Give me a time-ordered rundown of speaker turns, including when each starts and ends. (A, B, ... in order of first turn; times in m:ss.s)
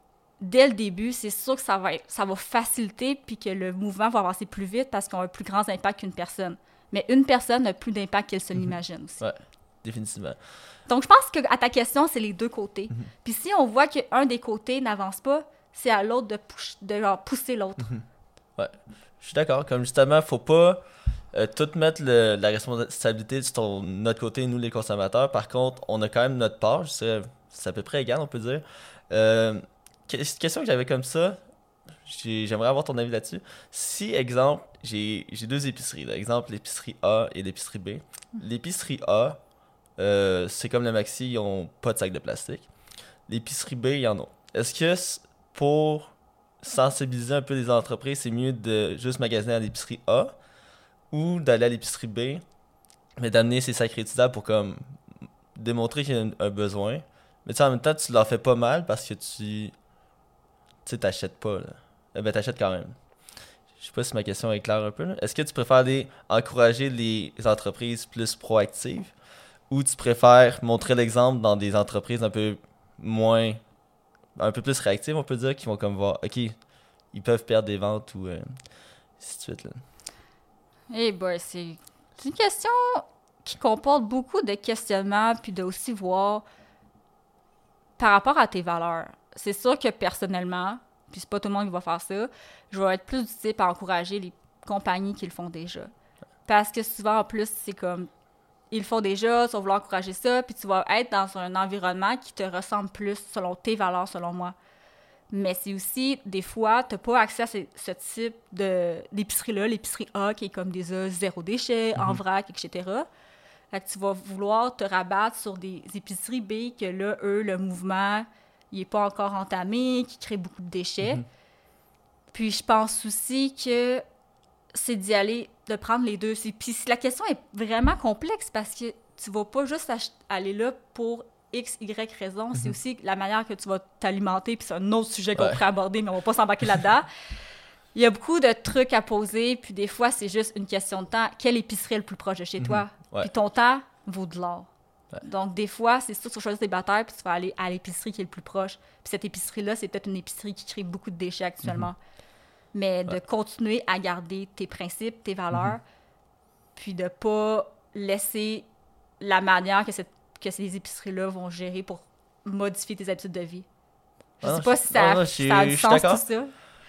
0:00.4-0:09.2 A
0:09.2-0:10.4 B
0:10.9-0:18.0 A
0:18.6-0:31.4 B
0:32.0-0:39.4 B
0:40.0-0:42.7 B
0:43.3-0:50.4 B
0:51.1-0:52.4 B
0:53.2-0:55.0 B
0:55.5-0:59.7 B
1:00.8-1:03.0 B
1:03.8-1:09.1 B
1:09.7-1:13.6 B
1:14.4-1:16.5 B
1:17.1-1:18.6 B
1:19.2-1:19.8 B
1:20.9-1:26.4 A
1:28.0-1:35.9 A
1:36.5-1:38.1 A
1:38.7-1:44.5 A
1:45.3-1:53.1 A
1:53.7-2:01.2 A
2:02.3-2:04.0 A
2:04.7-2:17.1 A
2:15.4-2:15.6 B
2:17.9-2:24.7 A
2:22.6-2:23.3 B
2:25.2-2:32.0 A
2:32.7-2:35.8 A
2:36.8-2:38.6 A
2:39.2-2:43.6 A
2:44.4-2:46.5 A
2:44.4-2:46.2 B